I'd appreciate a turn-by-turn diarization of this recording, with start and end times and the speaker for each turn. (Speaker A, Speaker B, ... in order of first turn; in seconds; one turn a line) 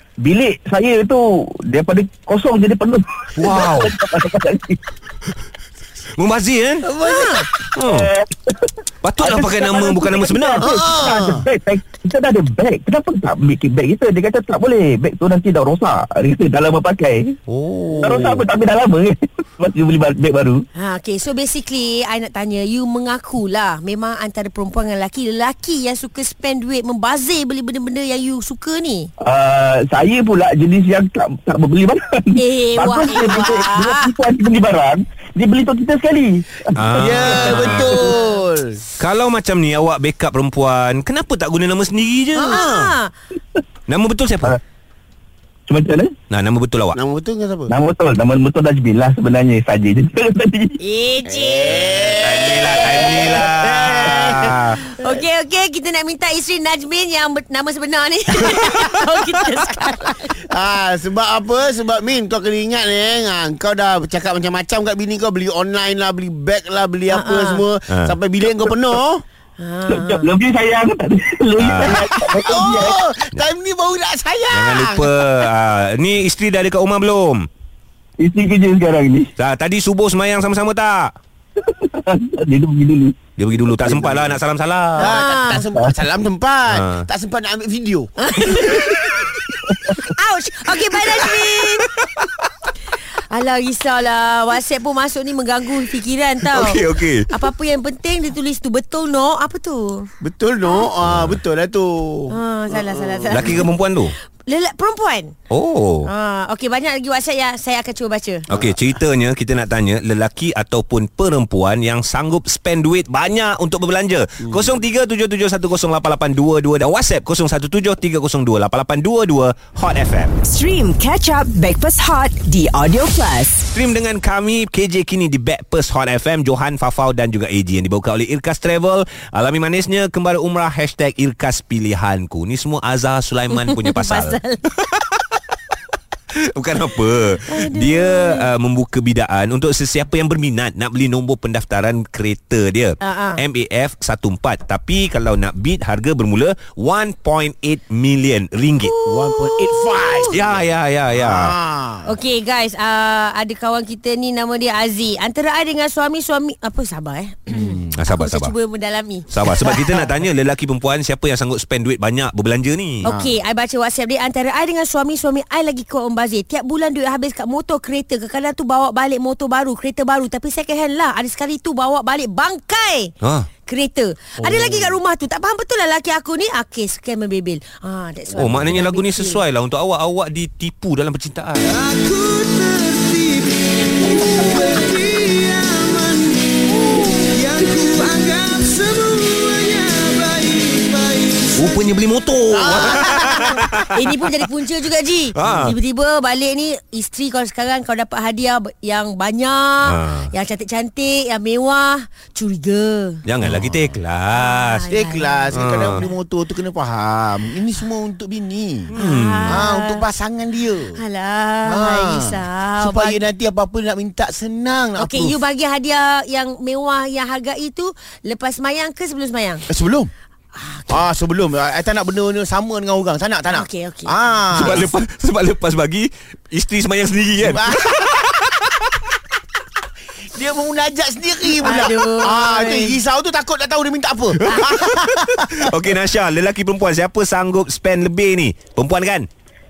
Speaker A: 0.2-4.8
Speaker B: 3.4-3.9
Speaker B: 6.2-6.9
Speaker C: 6.8-7.5
Speaker D: 7.0-7.5
Speaker B: 7.7-8.1
Speaker A: 7.9-8.7
Speaker B: 9.0-10.7
Speaker A: 9.2-17.4
Speaker C: 10.6-11.5
Speaker B: 17.5-18.4
Speaker A: 17.9-20.6
Speaker D: 20.8-29.1
Speaker A: 29.2-36.9
Speaker D: 32.4-34.1
Speaker B: 36.8-38.1
Speaker C: 36.9-38.8
Speaker D: 37.2-38.4
Speaker B: 39.0-42.7
Speaker C: 42.4-42.9
Speaker D: 42.5-43.1
Speaker B: 43.9-44.5
Speaker A: 45.7-46.1
Speaker B: 46.3-47.0
Speaker C: 46.9-47.7
Speaker A: 47.7-50.8
Speaker D: 50.8-52.2
Speaker C: 51.3-54.6
Speaker B: 52.2-54.8
Speaker D: 54.9-60.4
Speaker C: 60.5-69.2
Speaker D: 67.1-67.6
Speaker D: 69.6-70.3
Speaker A: 69.9-73.0
Speaker B: 71.6-72.1
Speaker C: 71.8-75.3
Speaker B: 74.5-77.5
Speaker A: 78.2-79.3
Speaker B: 79.4-81.1
Speaker A: 81.7-83.2
Speaker B: 83.4-85.2
Speaker C: 84.0-84.3
Speaker C: 85.0-88.1
Speaker D: 85.0-85.7
Speaker B: 86.7-87.0
Speaker D: 88.2-89.3
Speaker A: 89.7-90.1
Speaker D: 90.0-91.9
Speaker B: 91.3-92.3
Speaker D: 93.3-100.1
Speaker B: 96.5-97.3
Speaker C: 100.2-103.6
Speaker B: 101.0-101.4
Speaker D: 102.3-103.7
Speaker B: 103.3-104.1
Speaker D: 104.5-105.3
Speaker B: 105.5-106.1
Speaker D: 106.1-108.5
Speaker B: 108.5-120.3
Speaker C: 108.5-108.8
Speaker C: 114.4-114.7
Speaker E: 120.4-123.7
Speaker B: 123.7-135.3
Speaker D: 133.5-134.6
Speaker B: 136.5-148.9
Speaker D: 137.5-138.5
Speaker D: 143.0-143.4
Speaker D: 148.8-150.3
Speaker C: 149.1-150.6
Speaker B: 150.2-151.5
Speaker C: 151.1-152.1
Speaker D: 152.1-160.1
Speaker B: 157.9-158.5
Speaker B: 159.3-163.1
Speaker C: 163.0-163.3
Speaker D: 163.0-173.1
Speaker B: 173.2-173.5
Speaker D: 173.7-179.4
Speaker C: 174.4-175.0
Speaker B: 178.3-181.8
Speaker C: 181.7-191.9
Speaker B: 191.6-193.9
Speaker C: 192.5-193.8
Speaker D: 193.9-203.2
Speaker B: 195.4-195.7
Speaker B: 199.8-200.3
Speaker B: 203.3-204.8
Speaker C: 203.4-204.0
Speaker D: 204.3-205.6
Speaker C: 204.9-208.9
Speaker B: 205.5-206.1
Speaker B: 208.9-209.6
Speaker D: 209.0-210.0
Speaker C: 209.5-211.0
Speaker D: 210.9-213.2
Speaker C: 211.7-215.4
Speaker D: 215.0-219.7
Speaker C: 219.7-220.1
Speaker D: 220.6-221.1
Speaker C: 220.9-224.9
Speaker D: 223.5-224.1
Speaker B: 224.5-228.6
Speaker C: 227.4-228.0
Speaker C: 230.3-235.7
Speaker D: 231.6-233.0
Speaker B: 234.5-239.3